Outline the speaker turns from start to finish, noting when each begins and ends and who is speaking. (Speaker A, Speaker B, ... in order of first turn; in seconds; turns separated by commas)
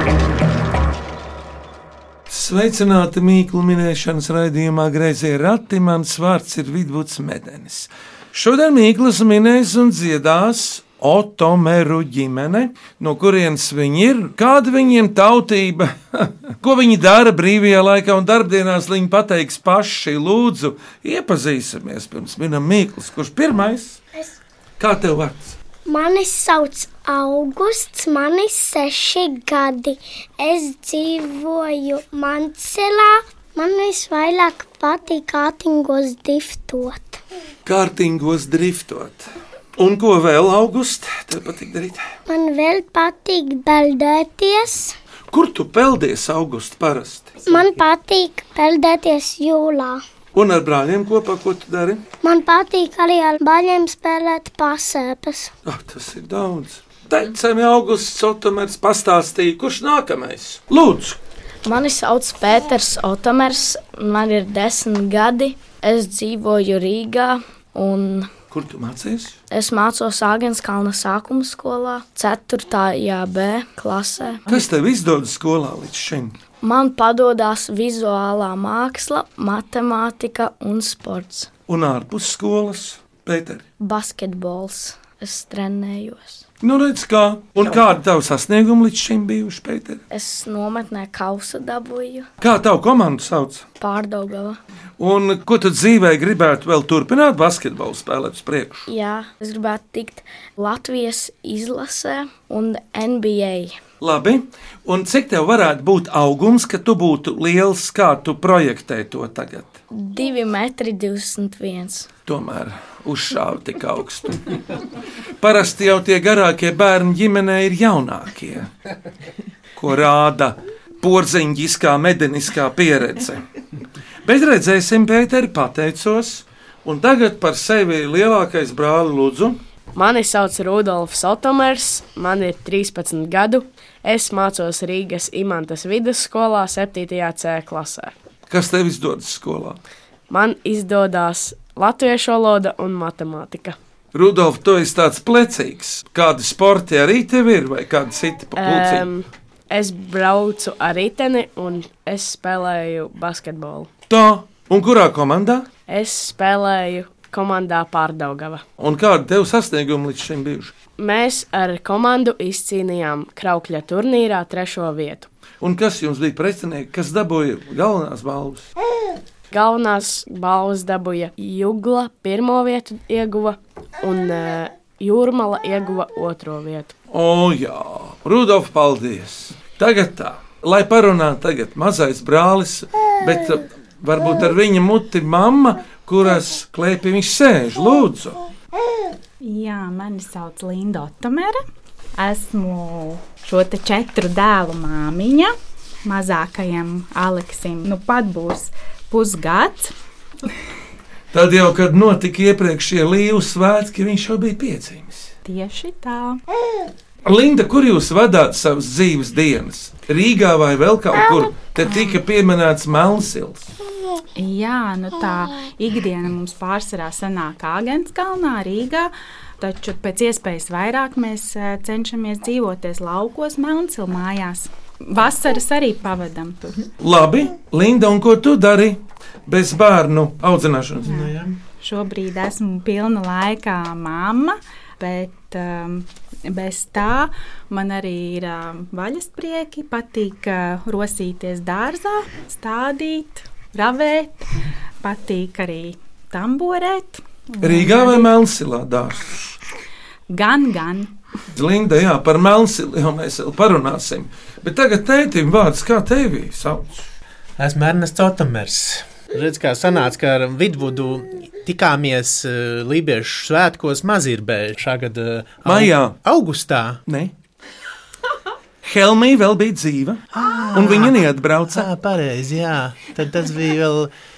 Speaker A: 2.3-24.0, Speaker A: 24.8-25.6, Speaker B: 25.9-37.2, Speaker A: 37.6-42.0, Speaker B: 42.3-44.9, Speaker A: 45.3-47.4, Speaker B: 47.5-50.0, Speaker A: 50.3-52.0, Speaker B: 52.2-55.5, Speaker A: 55.6-61.2, Speaker C: 61.6-68.3, Speaker A: 68.5-69.3, Speaker C: 69.5-74.4, Speaker A: 74.5-76.3, Speaker C: 76.6-81.5, Speaker A: 81.7-83.6, Speaker C: 83.8-86.4, Speaker A: 86.6-90.0, Speaker C: 90.1-92.3, Speaker A: 92.4-93.6, Speaker C: 93.8-94.6, Speaker A: 95.0-98.9, Speaker C: 98.9-103.8, Speaker A: 104.0-109.8, Speaker C: 109.9-112.1, Speaker A: 112.3-114.6, Speaker A: 115.4-118.7, Speaker A: 119.8-123.4, Speaker A: 124.2-129.6, Speaker D: 129.9-138.1, Speaker A: 138.5-139.8, Speaker D: 140.3-143.8, Speaker A: 144.1-149.1, Speaker D: 148.6-153.9, Speaker A: 154.1-155.7, Speaker D: 155.9-158.6, Speaker A: 158.8-160.7, Speaker D: 161.0-165.3, Speaker A: 165.6-168.7, Speaker D: 169.5-176.9, Speaker A: 177.1-188.4, Speaker E: 189.4-191.6, Speaker E: 192.2-195.5, Speaker E: 196.0-199.9, Speaker A: 201.3-205.3, Speaker E: 205.4-206.4, Speaker A: 207.2-213.7, Speaker E: 211.8-212.2, Speaker E: 214.4-226.8, Speaker A: 227.0-231.2, Speaker F: 231.0-231.5, Speaker E: 231.0-244.4, Speaker E: 245.0-248.3, Speaker A: 247.6-249.5, Speaker E: 250.3-251.1, Speaker A: 251.5-257.0, Speaker F: 257.6-267.0, Speaker A: 265.6-266.2, Speaker A: 267.1-267.3, Speaker A: 268.8-271.9, Speaker F: 270.3-274.1